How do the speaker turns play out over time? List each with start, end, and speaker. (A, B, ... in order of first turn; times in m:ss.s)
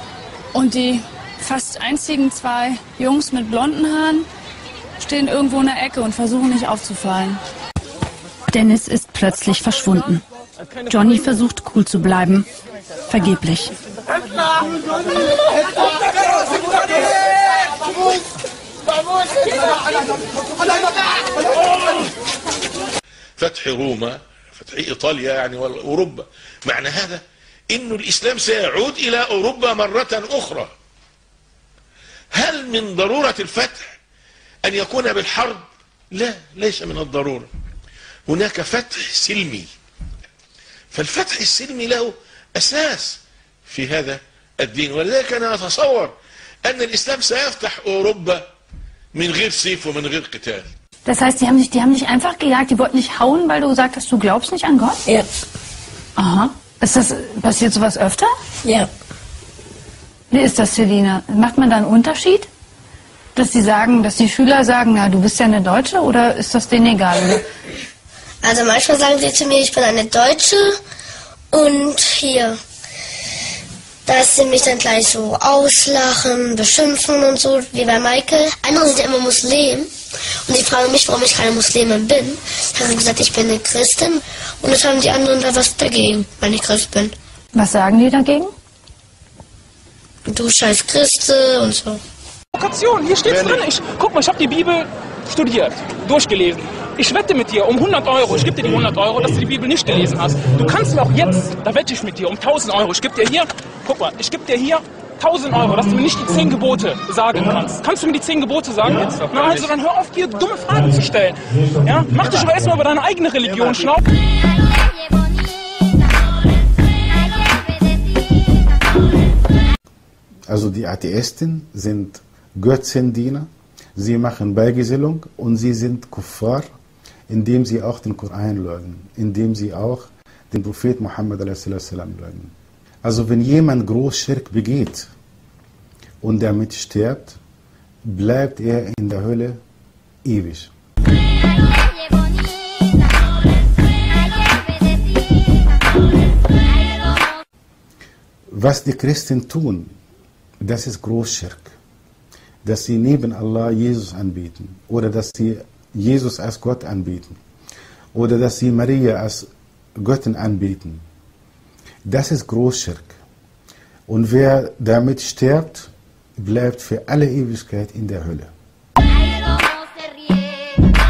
0:00.6-0:04.0 A
0:05.0-0:07.4 A
0:08.5-0:10.2 B
0:10.9-0:12.4 B
0:13.1-0:13.7 B
0:23.4-0:30.7 C
0:32.3-0:33.9 C
0:34.6-0:37.5 C
0:38.3-0:39.7 C
0:40.9-0:48.4 C
0:49.1-0:50.6 C
0:51.1-0:55.0 B
0:56.2-0:58.2 B
1:00.3-1:02.4 B
1:03.4-1:07.2 B
1:08.4-1:10.8 D
1:11.5-1:12.6 D
1:14.0-1:19.9 D
1:20.5-1:27.1 D
1:27.7-1:28.0 B
1:30.2-1:32.0 D
1:32.5-1:54.0 E
2:00.5-2:06.7 F
2:07.3-2:12.5 F
2:13.0-2:15.1 F
2:16.2-2:17.4 F
2:18.0-2:19.6 F
2:20.2-2:20.7 F
2:28.5-2:29.9 F
2:30.6-2:31.7 F
2:32.6-2:37.4 F
2:38.1-2:41.0 F
2:42.0-2:43.2 F
2:44.1-2:48.5 F